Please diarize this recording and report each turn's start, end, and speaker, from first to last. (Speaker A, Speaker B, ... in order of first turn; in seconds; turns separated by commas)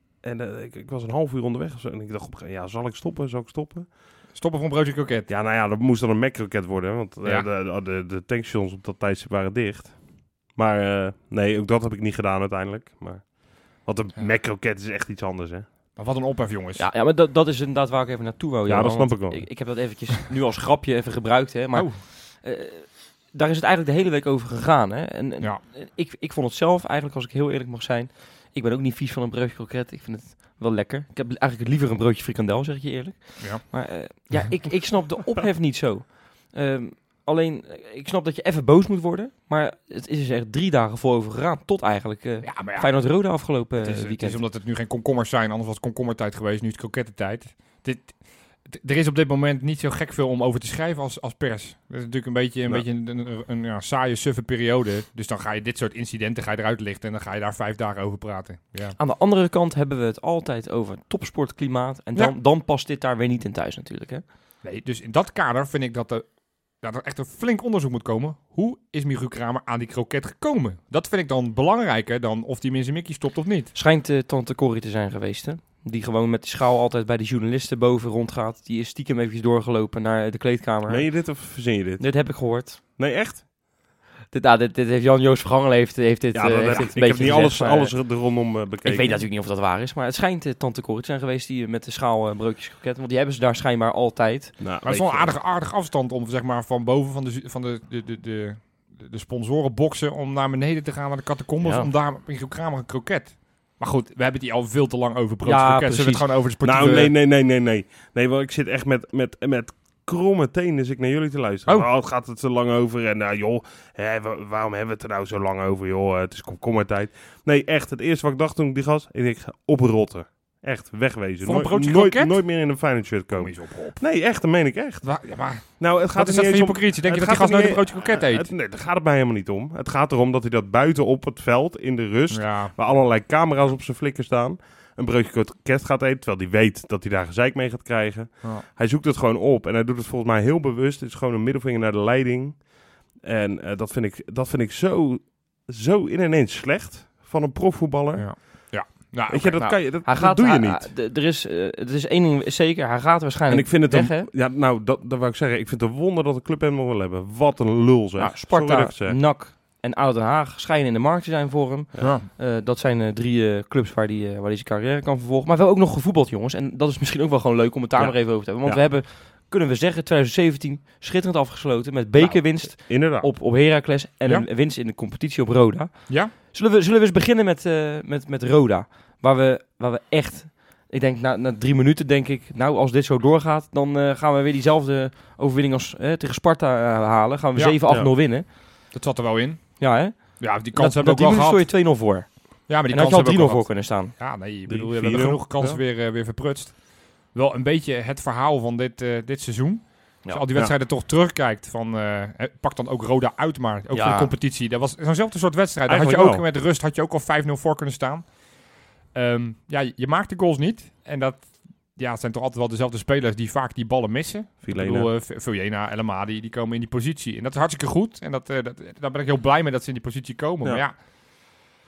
Speaker A: 0.2-4.0, Speaker B: 4.3-5.3, Speaker A: 5.3-15.7, Speaker B: 15.9-16.9, Speaker C: 16.8-44.4, Speaker A: 18.7-19.5, Speaker B: 21.7-22.0, Speaker B: 33.4-34.4, Speaker B: 42.4-59.0, Speaker C: 59.0-64.2, Speaker B: 64.6-73.7, Speaker C: 73.7-82.8, Speaker A: 80.9-83.4, Speaker C: 84.3-94.6, Speaker A: 86.3-89.3, Speaker A: 94.6-95.4, Speaker B: 94.8-107.1, Speaker C: 101.6-101.9, Speaker C: 105.4-106.3, Speaker A: 106.6-148.7, Speaker B: 121.4-128.5, Speaker B: 132.3-132.7, Speaker B: 148.1-149.8, Speaker A: 149.3-150.9, Speaker C: 149.6-154.3, Speaker A: 153.5-159.2, Speaker C: 158.2-188.6, Speaker B: 162.0-162.3, Speaker A: 167.9-168.9, Speaker A: 172.2-173.3, Speaker B: 187.5-192.0, Speaker A: 187.9-188.1, Speaker C: 189.8-194.1, Speaker B: 192.7-221.6, Speaker A: 194.7-195.8, Speaker C: 203.9-204.3, Speaker A: 205.9-206.4, Speaker A: 214.6-215.1